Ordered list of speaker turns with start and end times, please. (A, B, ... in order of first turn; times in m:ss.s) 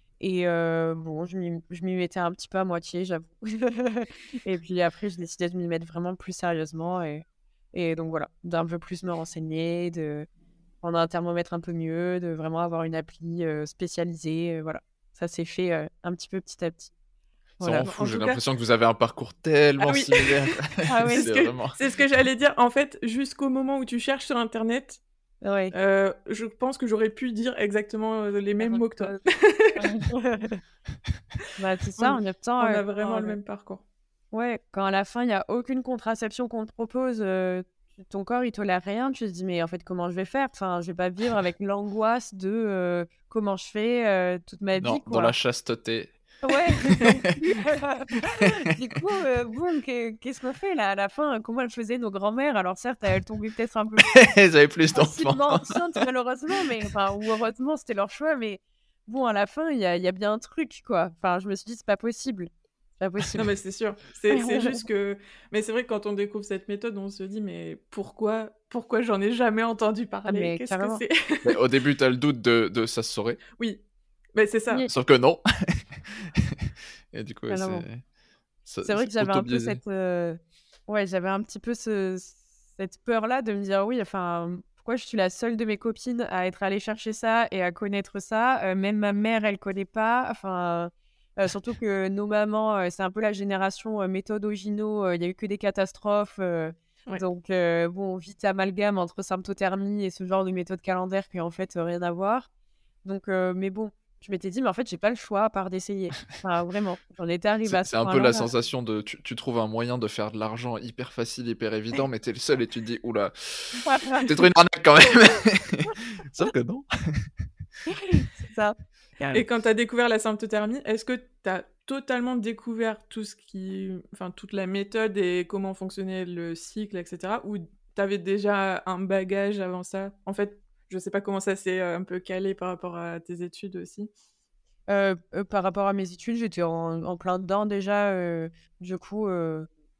0:00.2-0:10.3 A
0:10.8-0:16.9 A
0:17.6-0:17.9 A
0:17.6-0:21.8 B
0:17.8-0:18.4 C
0:19.8-0:20.6 C
0:20.9-0:21.3 A
0:21.1-0:25.0 C
0:25.4-0:25.8 A
0:25.7-0:29.8 C
0:28.6-0:29.2 A
0:29.8-0:30.6 A
0:31.6-0:33.4 A
0:32.0-0:33.8 C
0:34.3-0:45.3 A
0:44.8-0:47.4 B
0:46.4-0:54.2 A
0:54.0-0:56.0 B
0:54.9-1:03.5 A
1:03.4-1:11.6 C
1:04.3-1:04.8 A
1:10.3-1:11.0 A
1:11.4-1:13.4 B
1:13.6-1:14.9 C
1:14.9-1:18.0 B
1:17.5-1:17.9 A
1:18.6-1:19.8 B
1:18.8-1:42.5 A
1:43.0-1:48.5 A
1:47.6-1:57.5 B
1:53.8-1:54.3 A
1:57.9-1:58.8 A
1:59.3-2:14.1 C
2:14.9-2:19.7 A